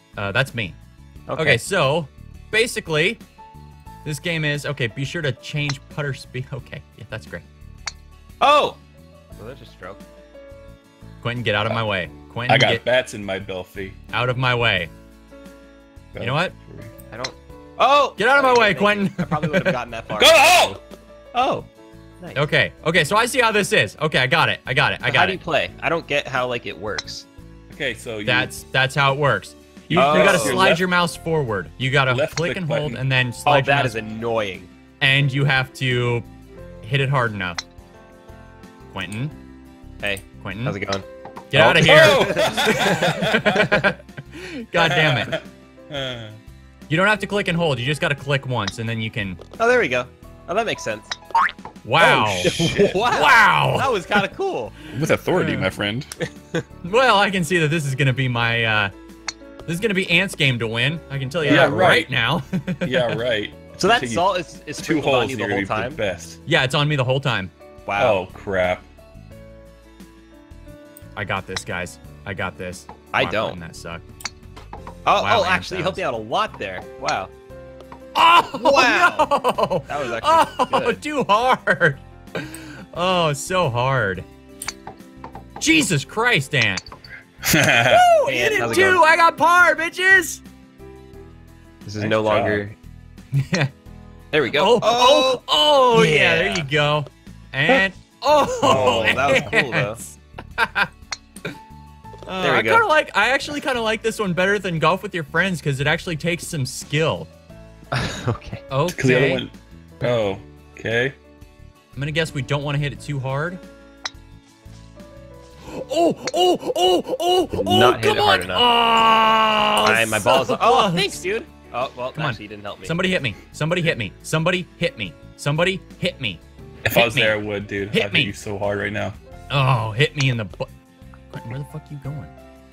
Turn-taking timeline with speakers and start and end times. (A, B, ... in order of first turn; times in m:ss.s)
0:00.2-0:00.8 A
0:01.3-0:01.6 B
0:01.4-0:03.2 A
0:04.0-0:07.4 A
0:08.4-0:08.8 B
0:09.4-0:10.0 B
0:11.2-0:12.8 A
0:12.5-0:14.0 C
0:14.1-0:14.9 A
0:16.1-0:16.9 C
0:16.2-0:16.6 A
0:17.1-0:20.8 B
0:18.2-0:19.8 A
0:20.2-0:20.8 C
0:21.4-0:21.7 B
0:22.2-0:22.5 B
0:22.4-0:25.4 A
0:25.0-0:27.3 B
0:27.7-0:28.5 C
0:28.2-0:34.0 A
0:29.9-0:30.9 C
0:29.9-0:30.7 B
0:32.1-0:33.0 C
0:33.4-0:34.7 B
0:35.0-0:36.3 A
0:36.8-0:37.6 A
0:38.9-0:39.3 A
0:40.0-0:41.0 B
0:40.4-0:40.8 A
0:41.5-0:45.4 A
0:41.5-0:43.8 C
0:42.1-0:43.9 B
0:44.8-0:46.4 C
0:46.9-0:49.4 A
0:49.6-0:51.1 B
0:51.8-0:54.0 A
0:52.0-0:53.0 C
0:52.4-0:54.7 B
0:54.9-0:56.1 C
0:55.3-0:55.7 A
0:56.8-0:58.9 A
0:59.7-1:03.2 A
1:01.4-1:02.0 B
1:01.4-1:02.1 C
1:02.8-1:06.4 C
1:03.8-1:06.0 B
1:06.5-1:07.5 A
1:07.9-1:08.2 B
1:08.0-1:08.9 C
1:11.2-1:14.0 A
1:13.1-1:13.6 B
1:15.1-1:17.3 B
1:15.2-1:16.0 A
1:18.2-1:24.3 A
1:18.5-1:19.3 B
1:19.9-1:21.0 B
1:25.6-1:26.8 A
1:27.4-1:28.0 C
1:27.8-1:30.4 A
1:28.2-1:29.0 B
1:31.8-1:32.8 B
1:32.0-1:32.6 C
1:33.3-1:33.7 A
1:34.3-1:35.4 B
1:34.4-1:40.9 A
1:35.9-1:36.7 B
1:38.6-1:39.5 C
1:38.6-1:40.0 B
1:42.3-1:47.3 A
1:42.4-1:42.9 B
1:47.9-1:48.6 B
1:48.7-1:49.4 A
1:48.9-1:51.2 C
1:52.0-1:53.6 A
1:55.7-2:01.2 A
1:57.5-1:58.7 B
1:59.8-2:03.0 B
2:02.2-2:06.4 A
2:06.8-2:09.2 C
2:06.9-2:07.4 A
2:07.9-2:08.3 A
2:09.5-2:10.7 A
2:11.3-2:12.3 A